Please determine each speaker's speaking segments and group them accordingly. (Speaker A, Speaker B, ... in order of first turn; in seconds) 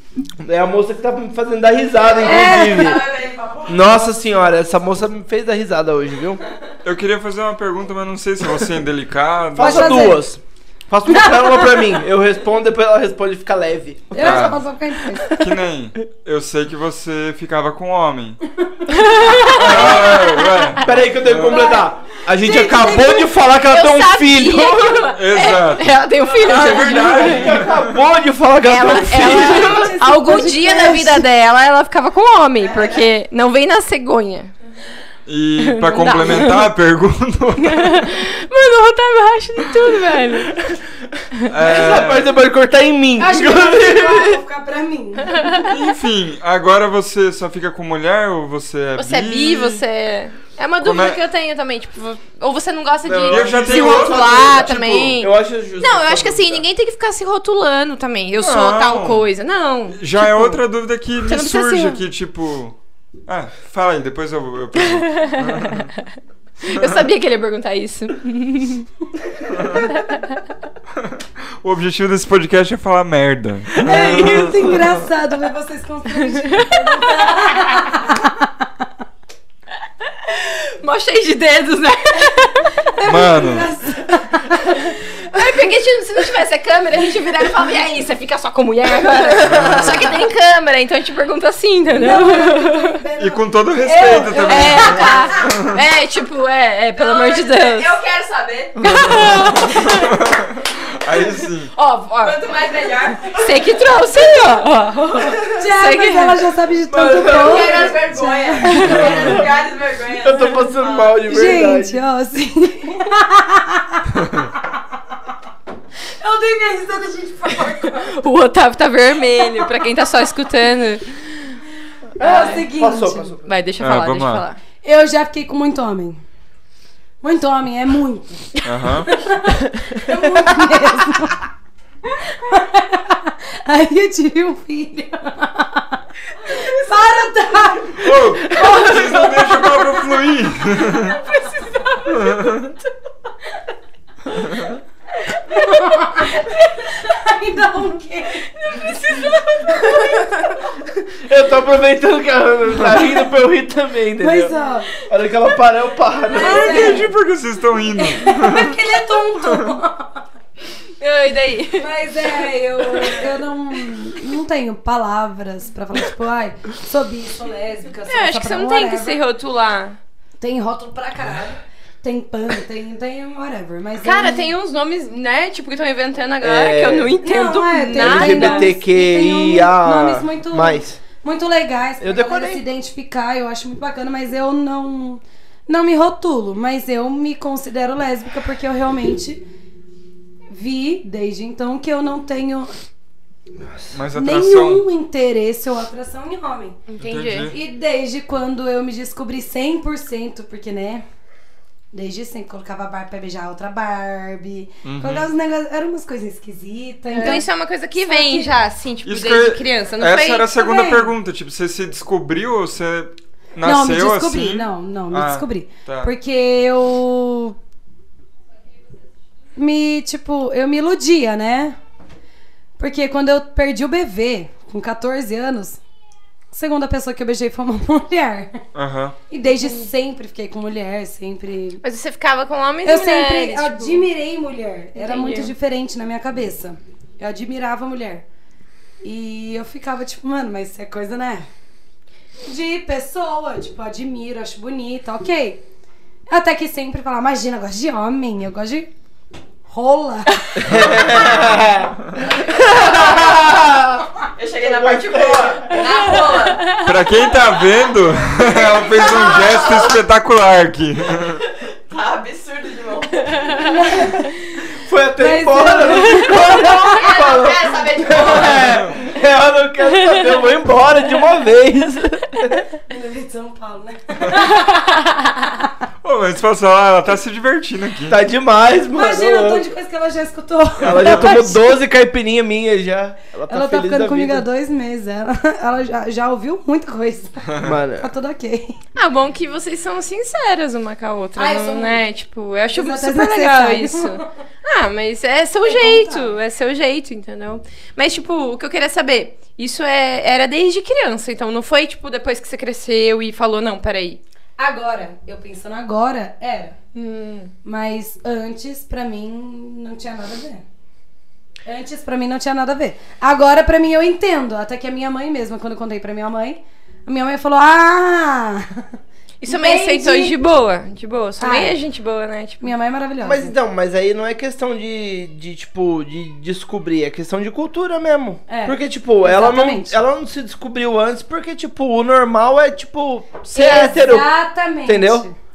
Speaker A: 0.4-3.0, 3.7-6.4, 9.5-14.5, 15.2-15.5, 19.6-20.2, 20.8-25.1, 26.5-29.9, 41.5-44.4, 53.0-56.6, 73.7-75.0, 107.0-107.7, 109.1-109.5, 110.2-112.0, 122.2-123.5, 138.2-139.4, 150.8-154.5, 155.1-157.1, 176.4-177.1, 177.9-181.0, 182.0-182.6, 250.5-255.8, 264.8-272.6, 278.1-279.7, 280.8-284.4, 287.6-288.1, 323.2-334.3, 334.9-335.2
Speaker B: 2.2-3.0, 9.6-10.2, 14.1-15.3, 18.6-19.3, 21.4-23.3, 29.2-31.2, 43.2-45.5, 73.8-78.7, 82.8-85.4, 92.0-95.2, 105.5-109.2, 111.2-114.1, 116.2-118.0, 122.2-123.3, 124.8-126.2, 127.2-128.5, 129.0-131.5, 132.2-138.1, 145.5-148.9, 149.7-150.1, 154.2-154.9, 156.3-157.1, 158.0-160.2, 161.8-169.2, 170.4-174.5, 177.2-189.4, 190.5-192.7, 194.1-196.8, 197.5-201.0, 201.9-208.5, 210.5-211.1, 213.6-217.6, 219.6-221.8, 222.8-225.8, 226.5-228.6, 229.3-231.8, 232.8-238.2, 239.0-241.5, 242.4-245.6, 246.3-248.9, 249.7-250.9, 263.5-264.3, 265.2-266.8, 272.9-274.7, 278.9-281.7, 283.5-288.7, 291.4-292.0, 292.7-294.2, 295.6-296.3, 304.6-306.8, 307.6-310.6, 311.6-318.9, 319.4-320.4, 321.4-321.8, 322.6-323.5, 328.5-330.0, 333.5-335.3
Speaker C: 2.2-3.7, 97.0-99.2, 102.2-103.5, 106.9-111.1, 252.4-253.5, 254.4-256.8, 258.7-259.9, 261.9-263.6, 266.9-268.8
Speaker D: 6.8-10.2, 14.2-14.6, 15.3-18.4, 19.4-21.7, 25.1-28.0, 35.3-38.1, 41.5-42.3, 45.6-49.8, 50.8-51.2, 53.2-55.0, 58.4-59.3, 59.9-62.8, 63.3-65.9, 66.7-67.0, 71.0-74.5, 83.0-83.7, 89.4-90.0, 93.2-95.7, 98.8-101.7, 108.8-109.5, 123.8-124.4, 128.6-129.1, 138.0-141.2, 142.1-142.7, 156.3-159.7, 193.9-194.8, 197.0-197.6, 204.8-205.3, 209.0-216.1, 228.7-229.2, 250.7-251.6, 256.8-261.4, 268.2-268.9, 276.0-278.2, 281.0-281.3
Speaker E: 18.9-20.7, 23.7-27.6, 28.6-34.5, 35.6-36.7, 37.6-40.6, 45.3-45.7, 49.0-60.6, 61.2-62.0, 64.8-66.0, 66.6-68.9, 69.8-70.2, 76.2-77.5, 80.2-82.8, 85.3-93.0, 94.3-97.9, 98.8-100.1, 101.7-102.4, 103.2-106.5, 108.8-109.1, 117.6-121.6, 123.5-124.6, 141.1-142.3, 145.4-146.5, 148.6-150.6, 161.0-161.9, 162.9-163.2, 168.1-170.0, 174.0-178.7, 196.9-197.5, 207.1-210.5, 229.6-229.9, 231.8-234.1, 234.9-235.5, 288.9-304.2, 306.9-307.5, 319.4-322.7